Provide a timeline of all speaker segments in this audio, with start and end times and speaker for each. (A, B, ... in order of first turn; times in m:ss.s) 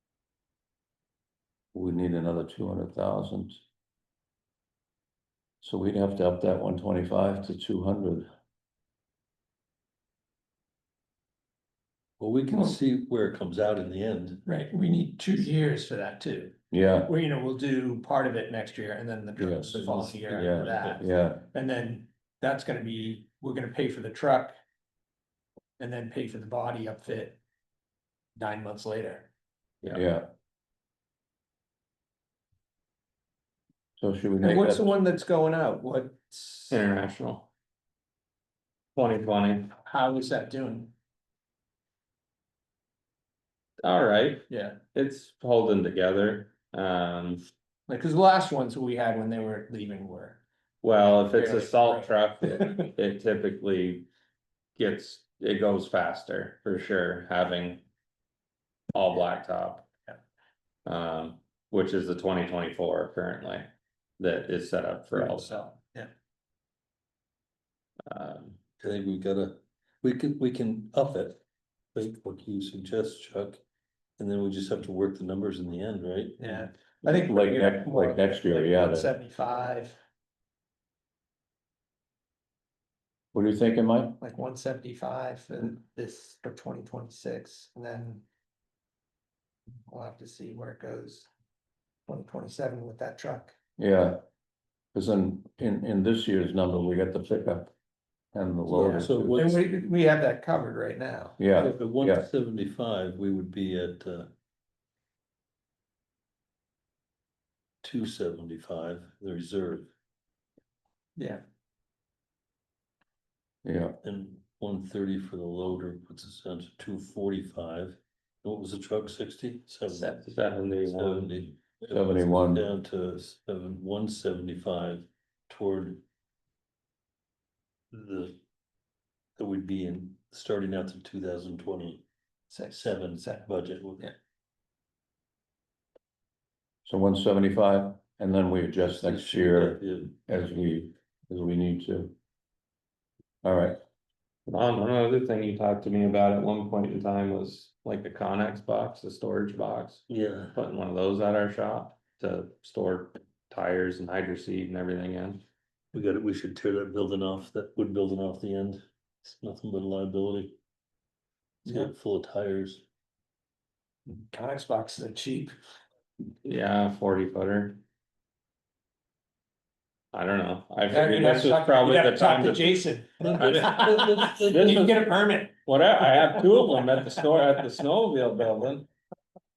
0:01.7-0:03.6 A
0:05.6-0:08.3 A
0:12.2-0:14.4 B
0:12.5-0:12.8 C
0:14.4-0:16.5 C
0:16.7-0:17.1 A
0:17.1-0:24.5 C
0:19.4-0:21.4 A
0:19.7-0:21.1 B
0:25.8-0:27.4 C
0:28.4-0:29.3 C
0:29.9-0:30.3 A
0:34.0-0:34.9 A
0:34.4-0:36.8 C
0:36.7-0:37.5 D
0:39.0-0:39.7 D
0:39.8-0:40.9 C
0:43.8-0:47.5 D
0:44.5-0:44.8 C
0:47.9-0:50.4 C
0:50.8-0:54.1 D
0:51.3-0:52.9 C
0:54.8-0:57.8 D
0:58.9-0:59.9 D
1:00.8-1:05.7 D
1:05.1-1:06.1 C
1:08.1-1:08.6 D
1:08.8-1:11.4 B
1:11.9-1:13.6 B
1:14.2-1:16.4 B
1:16.4-1:20.0 C
1:16.4-1:19.1 A
1:23.3-1:24.2 A
1:24.2-1:28.2 C
1:29.9-1:31.3 C
1:32.1-1:33.5 C
1:33.8-1:34.2 A
1:34.9-1:37.7 A
1:38.3-1:39.5 A
1:38.7-1:39.6 B
1:39.4-1:41.4 C
1:41.4-1:42.3 A
1:41.6-1:44.3 B
1:47.8-1:49.9 B
1:51.2-1:51.4 C
1:53.6-1:54.0 A
1:54.0-2:00.2 B
1:59.9-2:01.4 D
2:00.8-2:06.0 B
2:01.9-2:02.7 A
2:07.9-2:08.4 B
2:09.4-2:12.0 B
2:12.5-2:14.1 C
2:12.7-2:14.1 B
2:16.8-2:22.1 A
2:18.9-2:20.1 B
2:23.4-2:23.8 A
2:24.5-2:35.4 D
2:30.1-2:30.6 B
2:35.9-2:40.6 B
2:41.6-2:42.8 B
2:44.1-2:45.5 C
2:46.4-2:47.8 D
2:50.1-2:52.9 D
2:50.9-2:55.6 C
2:53.2-2:54.8 B
2:53.4-2:53.8 D
2:54.5-2:55.1 D
2:55.6-2:58.9 D
2:56.1-2:57.0 C